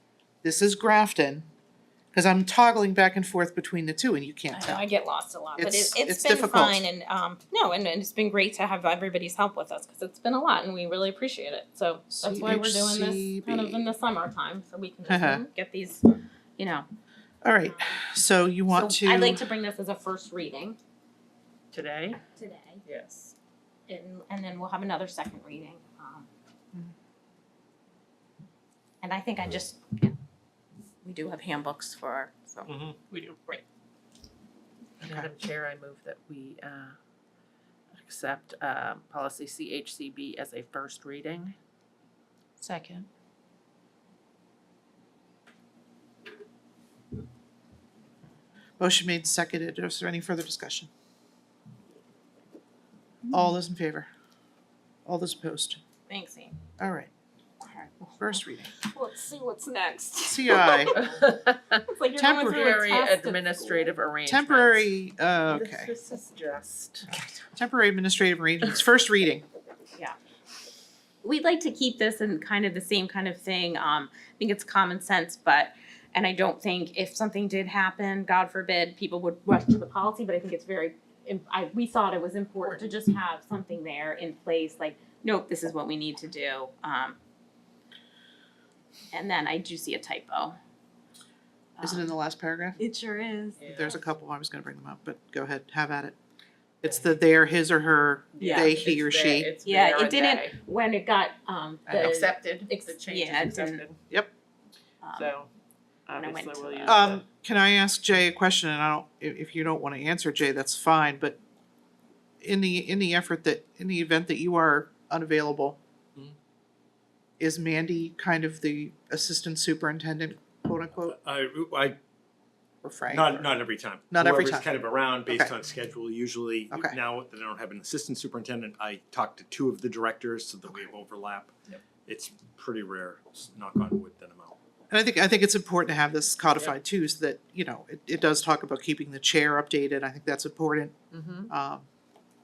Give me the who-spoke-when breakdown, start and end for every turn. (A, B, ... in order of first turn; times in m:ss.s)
0:00.4-0:01.5 A
0:02.1-0:04.9 A
0:04.5-0:16.9 B
0:05.6-0:06.9 A
0:12.1-0:13.9 A
0:15.1-0:15.4 A
0:17.4-0:19.5 A
0:17.7-0:18.0 B
0:18.7-0:20.8 B
0:21.7-0:22.2 C
0:22.4-0:22.8 B
0:22.9-0:23.3 C
0:23.9-0:26.3 B
0:29.0-0:30.2 B
0:31.0-0:32.8 B
0:32.7-0:33.0 D
0:33.1-0:33.6 C
0:35.0-0:37.0 C
0:38.0-0:41.6 C
0:42.6-0:43.1 B
0:48.8-0:50.9 A
0:53.3-0:54.1 A
0:55.1-0:55.8 A
0:56.1-0:56.6 B
0:56.8-0:57.1 A
0:57.6-0:58.2 B
0:58.2-0:58.8 A
0:58.8-1:01.2 B
1:00.2-1:01.0 A
1:00.9-1:04.9 C
1:01.9-1:03.9 B
1:02.2-1:02.8 A
1:04.3-1:05.9 A
1:05.5-1:07.2 C
1:07.6-1:09.5 A
1:11.2-1:27.2 B
1:22.6-1:22.9 C
1:29.1-1:30.6 B
1:31.8-1:32.1 B
1:31.8-1:32.8 A
1:32.8-1:33.8 B
1:33.6-1:34.0 C
1:33.6-1:36.2 A
1:36.8-1:39.5 A
1:38.4-1:40.6 C
1:38.4-1:38.7 B
1:39.6-1:43.9 B
1:41.9-1:42.2 A
1:41.9-1:44.0 C
1:45.0-1:45.3 B
1:45.2-1:45.5 C
1:46.1-1:47.2 C
1:46.2-1:47.0 B
1:46.9-1:51.4 A
1:52.4-1:55.8 A
1:57.4-2:01.2 A
2:01.0-2:02.0 D
2:02.8-2:03.6 A
2:03.1-2:11.5 D
2:04.1-2:04.7 A
2:05.3-2:05.5 A
2:12.0-2:14.6 D
2:14.9-2:21.0 A
2:21.1-2:21.5 C
2:21.5-2:21.9 A